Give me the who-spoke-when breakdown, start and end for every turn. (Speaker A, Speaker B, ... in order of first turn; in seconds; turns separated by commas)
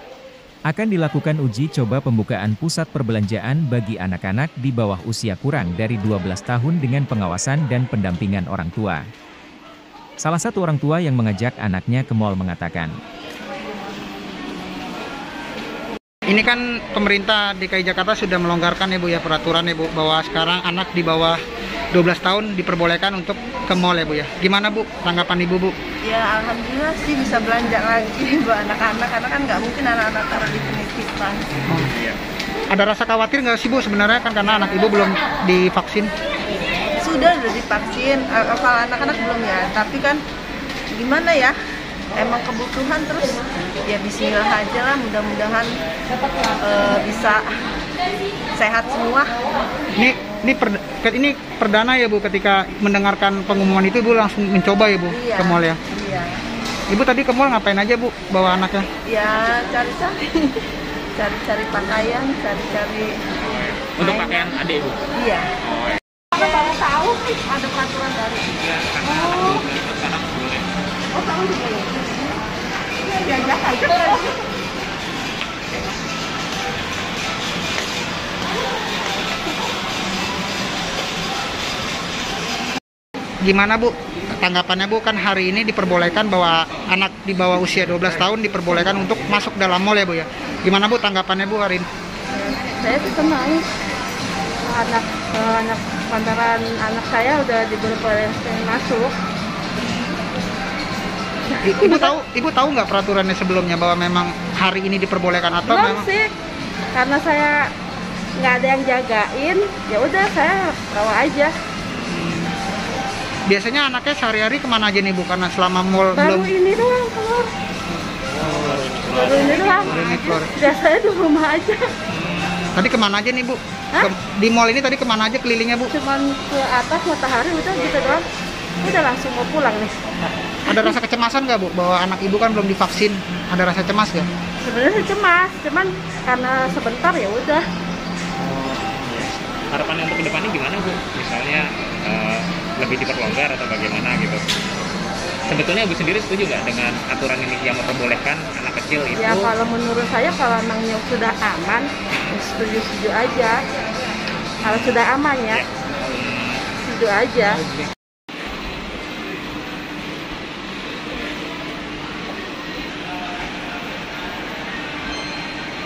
Speaker A: 0.7-9.1, Speaker A: 10.2-12.9, Speaker B: 16.3-21.4, Speaker B: 21.9-25.7, Speaker C: 26.0-31.5, Speaker D: 31.9-32.2, Speaker B: 32.7-36.1, Speaker C: 37.0-40.2, Speaker C: 40.9-41.5, Speaker C: 42.1-45.7, Speaker C: 46.6-47.6, Speaker C: 48.5-49.4, Speaker B: 50.0-55.8, Speaker C: 55.1-56.4, Speaker B: 56.9-58.9, Speaker C: 59.1-60.6, Speaker C: 61.2-63.1, Speaker D: 63.4-65.0, Speaker C: 64.0-64.4, Speaker C: 65.2-65.5, Speaker D: 65.6-66.0, Speaker E: 66.3-69.6, Speaker D: 68.5-70.7, Speaker E: 71.1-72.3, Speaker E: 73.0-74.4, Speaker B: 83.4-91.8, Speaker E: 92.3-93.6, Speaker E: 94.7-99.1, Speaker E: 101.5-102.1, Speaker B: 101.6-106.1, Speaker E: 105.7-106.3, Speaker E: 106.9-107.6, Speaker E: 108.4-111.5, Speaker B: 112.1-112.5, Speaker B: 113.5-116.5, Speaker E: 116.2-117.5, Speaker D: 118.3-120.0, Speaker E: 119.1-121.8, Speaker B: 119.7-120.5, Speaker D: 122.1-122.8, Speaker B: 122.8-125.9, Speaker E: 125.9-128.2, Speaker E: 128.8-129.9, Speaker B: 130.7-134.3, Speaker E: 134.6-137.6, Speaker D: 138.9-144.4, Speaker D: 145.5-149.5, Speaker E: 149.2-153.6, Speaker E: 154.6-155.6, Speaker D: 155.5-156.6, Speaker E: 156.8-157.6